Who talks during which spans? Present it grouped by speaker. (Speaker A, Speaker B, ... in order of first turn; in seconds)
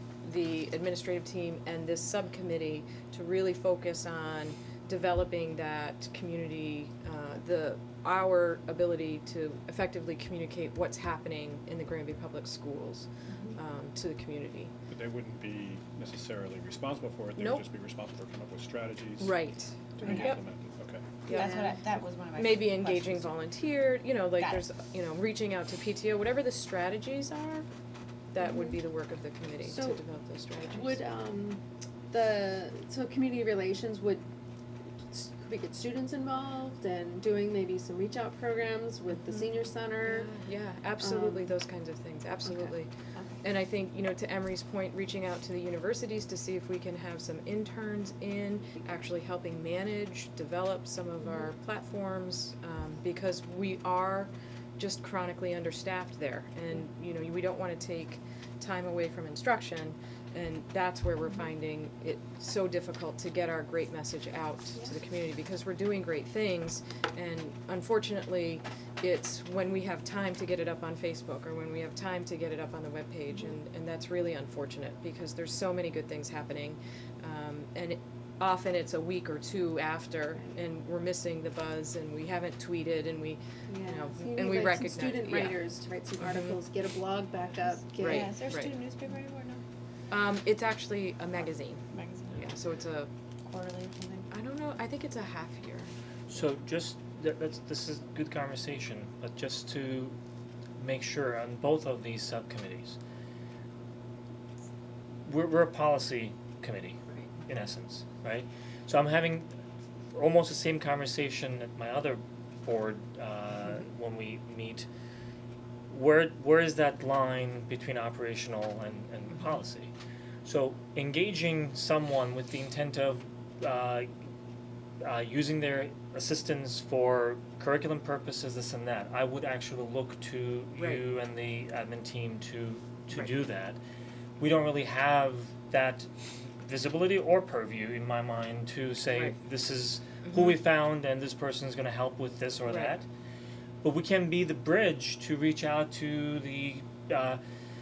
Speaker A: 0.2-14.7, 17.4-17.6, 19.2-20.4, 21.2-21.6, 22.4-27.6, 28.3-31.0, 39.1-39.5, 40.0-85.6, 86.2-86.6, 88.0-88.7, 90.1-93.1, 94.3-95.9, 130.8-131.0, 140.2-140.6, 142.7-142.9
Speaker B: 14.9-21.3
Speaker C: 20.0-20.4, 21.3-23.4, 24.4-24.6, 88.0-89.6, 91.9-92.5, 93.4-94.3
Speaker D: 21.3-21.7, 28.4-28.7, 29.6-30.0, 30.7-34.2, 35.1-40.4, 41.0-41.5, 42.4-42.7, 83.7-88.4
Speaker E: 96.3-100.2, 100.8-103.0, 105.2-109.5, 110.1-114.9, 115.9-119.9, 120.4-124.1, 125.0-133.8, 134.4-143.1, 143.8-147.4